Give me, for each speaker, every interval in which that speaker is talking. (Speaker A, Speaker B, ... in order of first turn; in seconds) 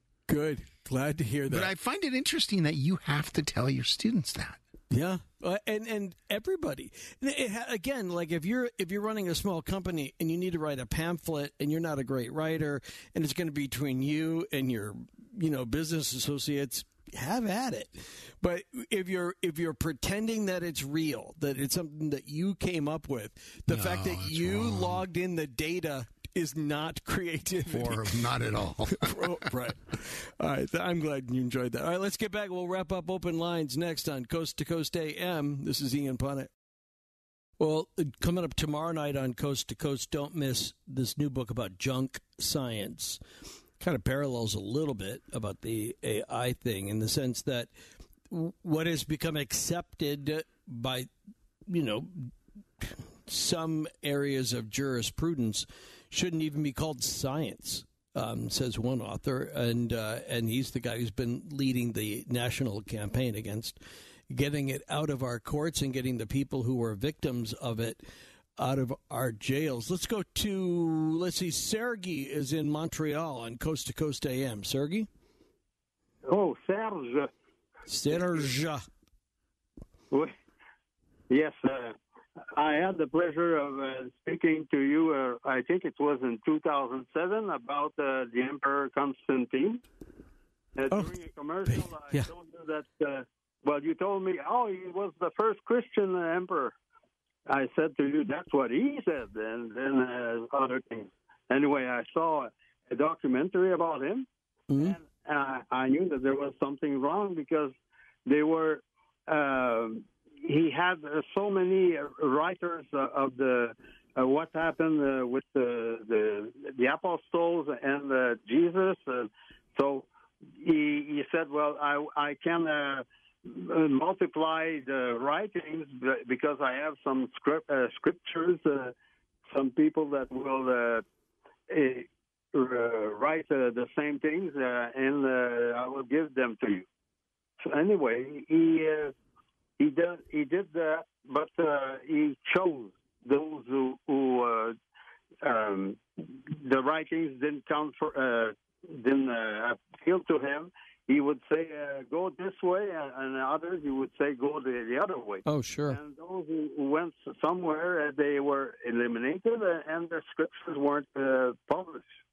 Speaker A: 0.3-1.7, 4.9-28.2, 28.9-36.5, 37.6-43.2, 43.8-47.7, 48.3-51.1, 51.7-63.8, 64.3-68.1, 68.6-75.1, 77.9-78.9, 90.9-92.3, 104.7-105.0, 155.5-156.0
Speaker B: 1.5-4.6, 23.7-25.0, 27.7-29.4
Speaker C: 76.2-77.3, 78.1-78.5, 81.3-82.0, 82.5-89.8, 90.8-96.8, 97.5-107.8, 108.3-128.9, 129.5-131.1, 131.7-136.9, 137.6-139.2, 139.8-144.8, 145.4-162.2